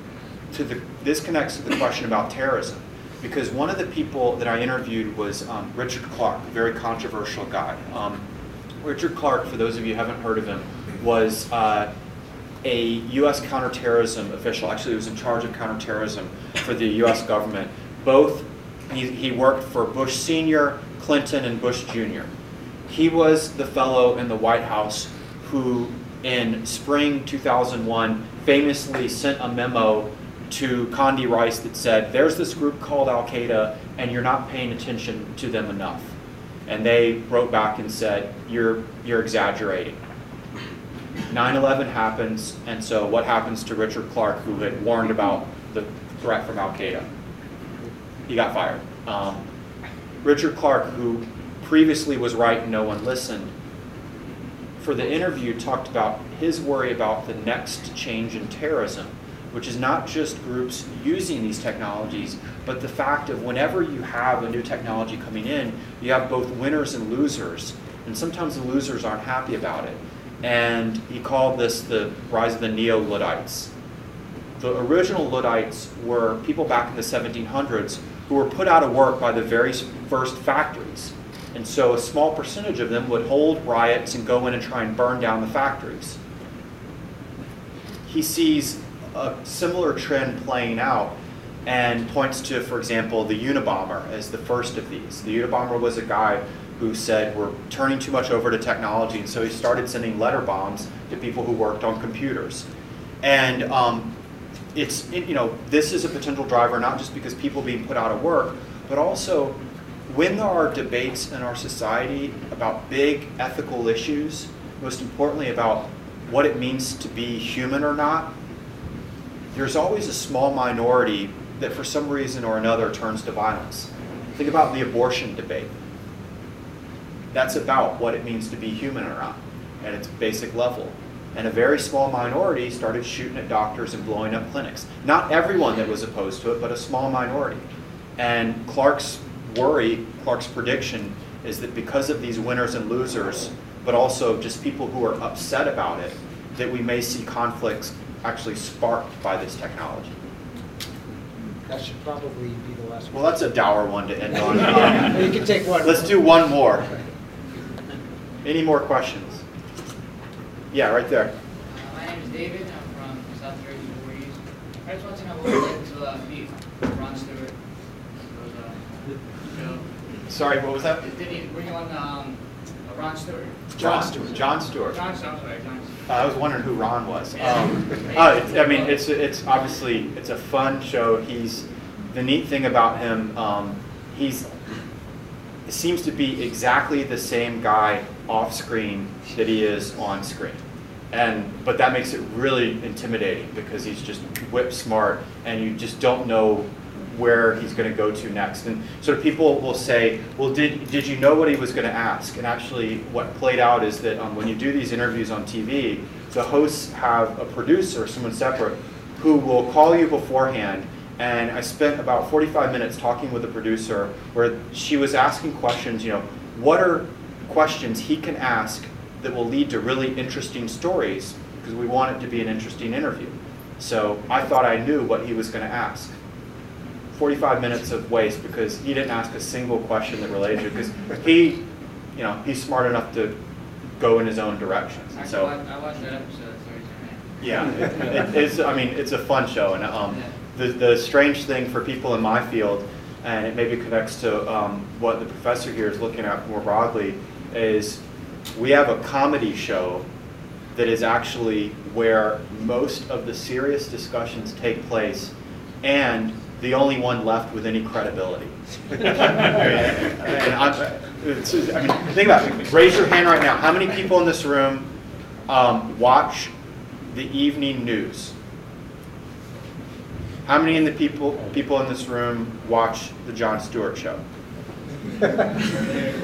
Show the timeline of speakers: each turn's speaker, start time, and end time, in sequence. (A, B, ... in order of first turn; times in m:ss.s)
0:00.5-0:08.2 A
0:08.8-0:11.9 A
0:12.6-0:22.3 A
0:22.9-0:36.1 A
0:36.7-0:40.0 A
0:41.3-0:47.1 A
0:48.3-0:49.5 A
0:50.2-0:53.5 A
0:54.8-1:13.7 A
1:14.6-1:26.2 A
1:28.1-1:42.7 A
1:43.2-1:44.1 A
1:44.7-1:58.3 A
1:59.5-2:05.7 A
2:07.3-2:30.1 A
2:31.7-2:33.4 B
2:33.1-2:36.9 A
2:34.6-2:36.3 B
2:38.4-2:39.4 A
2:40.7-2:41.3 A
2:41.7-2:47.6 C
2:48.3-2:49.9 C
2:50.3-2:51.0 A
2:51.0-2:56.1 C
2:53.8-2:55.0 A
2:56.1-3:04.5 A
2:57.4-2:59.0 C
3:05.7-3:10.6 A
3:11.1-3:46.2 A
3:47.1-3:53.4 A
3:54.0-3:55.5 A
3:55.2-3:57.4 C
3:57.4-4:08.0 A
4:00.1-4:00.3 C
4:08.5-4:10.0 A
4:10.7-4:24.9 A
4:25.5-4:26.5 A
4:27.1-4:28.4 A
4:30.4-4:34.2 A